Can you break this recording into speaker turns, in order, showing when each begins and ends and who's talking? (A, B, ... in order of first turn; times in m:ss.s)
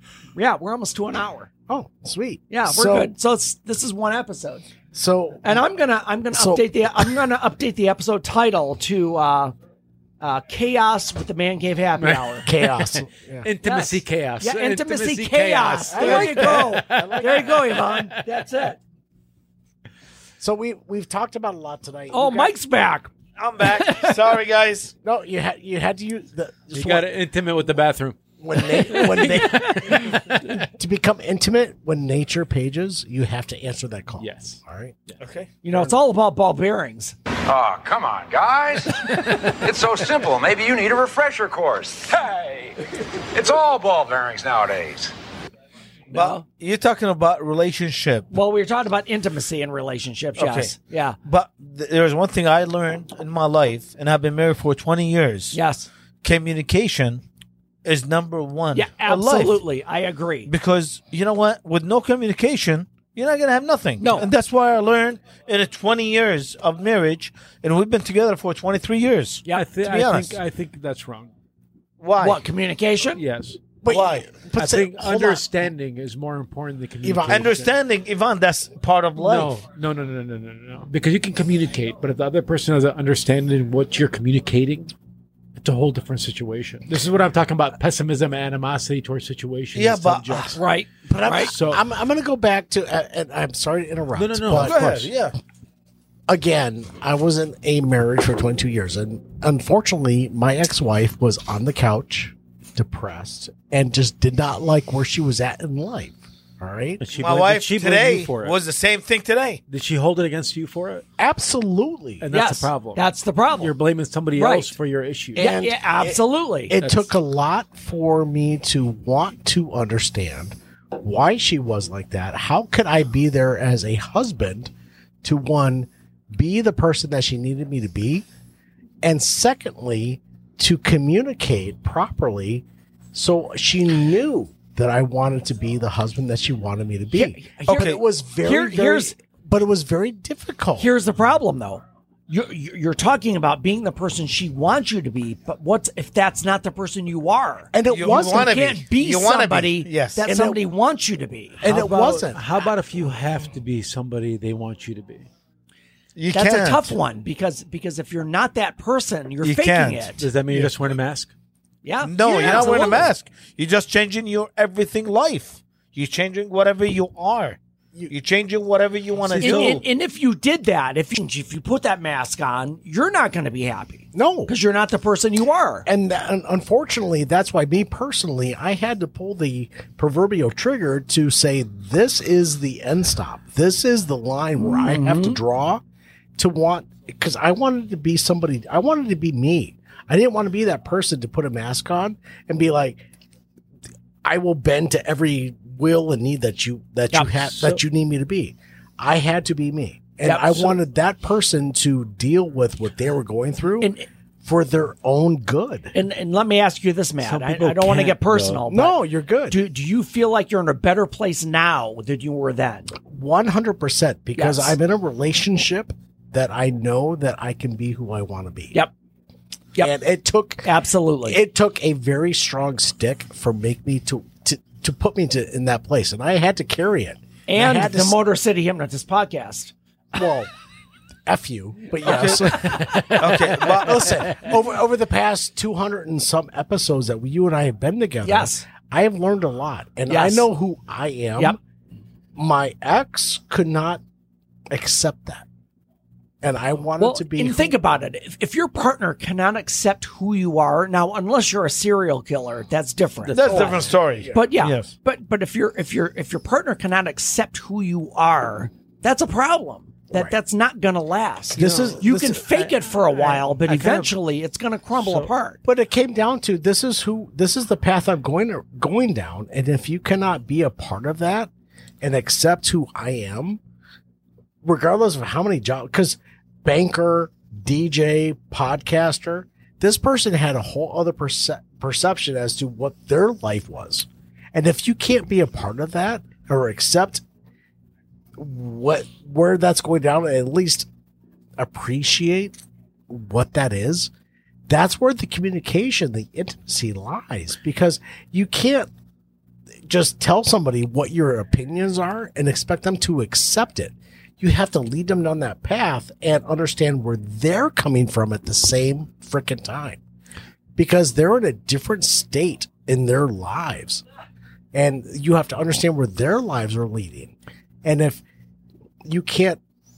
0:00.4-0:01.5 A
0:01.7-0:03.1 B
0:02.5-0:04.7 A
0:04.9-0:05.6 B
0:05.4-0:09.5 A
0:06.3-0:07.2 B
0:10.2-0:12.5 A
0:12.0-0:18.1 C
0:12.4-0:13.5 B
0:13.6-0:18.8 A
0:15.9-0:17.8 B
0:20.4-0:22.6 B
0:22.1-0:23.1 A
0:23.4-0:24.9 D
0:23.8-0:24.1 A
0:25.0-0:27.1 B
0:26.7-0:28.2 C
0:28.4-0:35.0 B
0:28.9-0:30.0 A
0:28.9-0:30.5 C
0:34.2-0:35.2 C
0:35.2-0:35.5 D
0:35.6-0:37.1 A
0:37.5-0:42.8 E
0:43.3-0:45.1 E
0:46.1-0:46.4 A
0:46.1-0:48.3 D
0:48.3-0:51.2 A
0:50.4-0:50.7 D
0:51.2-0:55.6 D
0:55.5-0:55.9 A
0:56.2-0:57.2 D
0:57.8-0:59.6 D
0:58.7-1:00.5 A
1:00.5-1:10.4 D
1:04.0-1:04.3 A
1:09.5-1:11.3 C
1:12.0-1:12.4 D
1:12.2-1:13.2 A
1:13.2-1:13.6 C
1:13.8-1:15.4 B
1:13.9-1:14.3 D
1:14.6-1:17.7 C
1:17.0-1:17.5 B
1:17.3-1:19.5 D
1:19.2-1:24.9 C
1:25.6-1:30.6 C
1:29.7-1:30.6 D
1:30.6-1:31.5 A
1:31.1-1:34.8 B
1:31.4-1:31.8 C
1:34.2-1:35.1 C
1:34.6-1:35.3 D
1:36.3-1:47.0 B
1:47.0-1:48.6 C
1:47.2-1:49.6 D
1:49.7-1:51.0 C
1:51.2-1:52.3 B
1:52.2-1:53.0 C
1:52.3-1:53.7 A
1:53.6-1:55.5 C
1:54.4-1:54.7 A
1:55.4-1:56.8 A
1:55.4-2:04.7 B
1:56.8-1:57.1 C
2:05.2-2:08.3 B
2:09.0-2:20.9 B
2:17.1-2:19.1 A
2:17.7-2:18.0 D
2:20.8-2:31.6 A
2:27.7-2:28.7 B
2:27.9-2:30.2 D
2:30.2-2:30.6 B
2:31.6-2:32.4 B
2:31.6-2:35.3 C
2:36.2-2:37.0 D
2:36.3-2:40.2 A
2:39.4-2:40.1 D
2:40.2-2:41.3 C
2:41.8-2:43.1 A
2:42.0-2:47.6 D
2:48.1-2:49.8 D
2:49.2-2:49.8 C
2:49.4-2:55.9 A
2:54.1-2:54.5 B
2:55.9-3:05.8 B
3:04.6-3:05.4 A
3:06.4-3:13.0 B
3:14.2-3:23.9 B
3:17.3-3:17.8 C
3:20.2-3:20.8 A
3:23.8-3:24.1 A
3:24.4-3:25.9 B
3:25.9-3:29.0 A
3:27.2-3:28.6 C
3:28.7-3:29.6 B
3:29.5-3:32.9 A
3:33.0-3:38.8 B
3:34.4-3:34.8 A
3:39.8-3:40.7 B
3:40.6-3:41.4 A
3:41.2-3:48.2 B
3:47.5-3:49.7 A
3:50.1-3:50.5 B
3:51.3-4:01.6 B
3:52.0-3:52.6 D
3:53.2-3:54.2 D
3:58.2-3:58.6 A
4:00.1-4:00.5 A
4:02.4-4:04.0 B
4:04.7-4:05.5 B
4:06.4-4:07.8 B
4:07.0-4:13.8 A
4:13.3-4:14.9 D
4:13.4-4:14.3 B
4:14.3-4:25.6 A
4:21.6-4:22.7 B
4:21.6-4:22.0 C
4:22.6-4:24.1 C
4:25.0-4:25.3 C
4:25.6-4:31.5 B
4:32.0-4:33.6 B
4:34.6-4:47.2 B
4:48.4-4:50.9 B
4:51.6-4:52.6 B
4:53.1-4:54.1 B
4:54.7-4:58.9 B
4:59.8-5:10.0 B
5:10.8-5:14.0 B
5:14.7-5:18.2 B
5:19.0-5:19.6 B